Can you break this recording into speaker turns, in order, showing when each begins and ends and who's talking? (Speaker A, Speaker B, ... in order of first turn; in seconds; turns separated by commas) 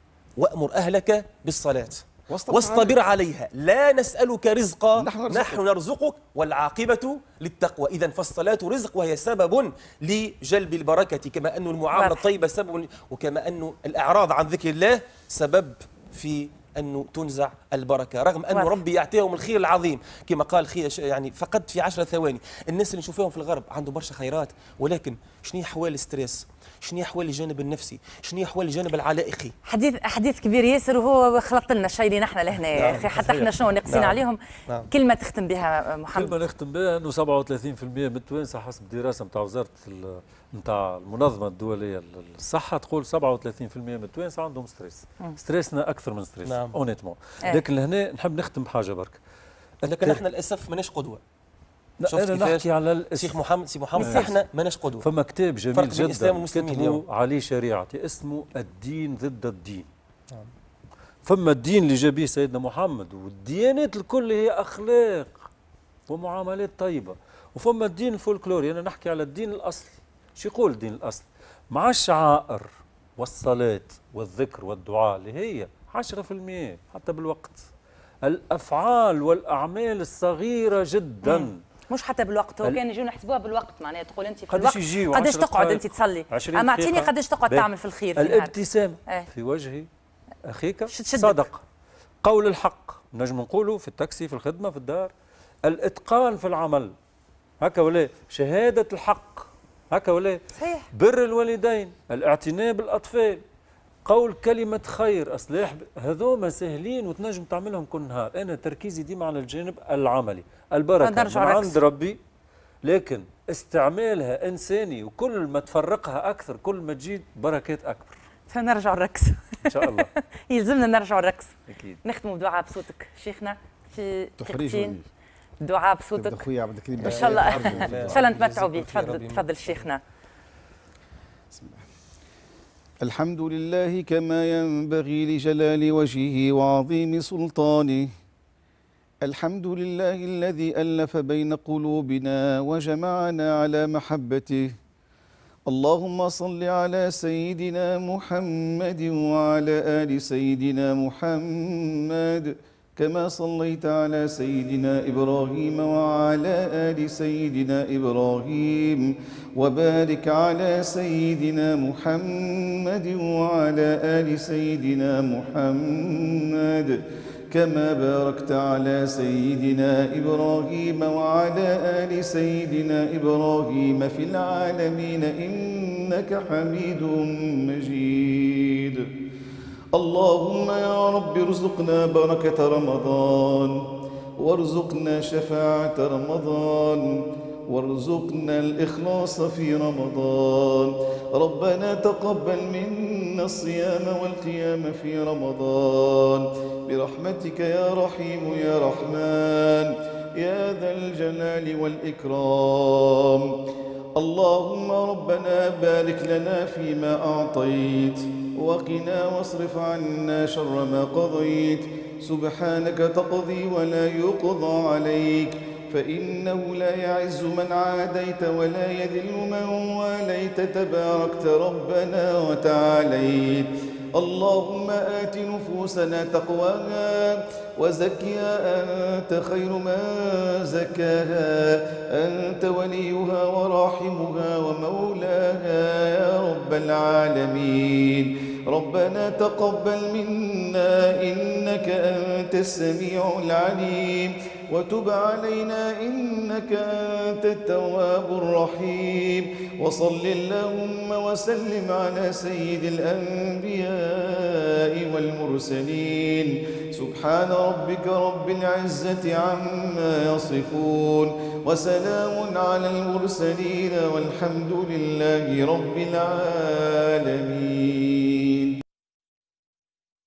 Speaker A: 0.4-29.5, Speaker B: 2.3-3.0, Speaker B: 5.0-5.6, Speaker C: 11.9-12.2, Speaker C: 18.5-18.8, Speaker C: 29.6-36.4, Speaker A: 32.7-34.9, Speaker D: 36.1-49.2, Speaker A: 46.5-46.8, Speaker D: 49.8-50.2, Speaker A: 49.8-51.2, Speaker D: 52.0-53.4, Speaker A: 52.0-55.0, Speaker C: 54.0-54.4, Speaker D: 54.0-54.3, Speaker D: 55.0-59.9, Speaker A: 55.7-57.0, Speaker D: 61.2-65.5, Speaker D: 66.1-77.6, Speaker D: 78.2-81.6, Speaker C: 81.2-88.5, Speaker D: 84.5-89.9, Speaker D: 90.4-91.6, Speaker C: 90.9-91.4, Speaker D: 92.2-95.1, Speaker D: 95.6-96.9, Speaker D: 97.6-103.4, Speaker C: 100.5-100.9, Speaker D: 104.0-112.2, Speaker C: 111.0-111.8, Speaker D: 112.8-118.1, Speaker C: 118.5-125.0, Speaker D: 119.6-120.1, Speaker D: 121.7-122.0, Speaker B: 124.4-125.1, Speaker C: 125.6-126.4, Speaker B: 126.1-128.2, Speaker C: 127.0-130.0, Speaker A: 127.0-129.8, Speaker B: 131.5-131.8, Speaker B: 133.0-138.1, Speaker B: 139.2-144.7, Speaker B: 145.7-179.1, Speaker B: 179.9-183.8, Speaker B: 184.4-203.6, Speaker B: 204.2-268.8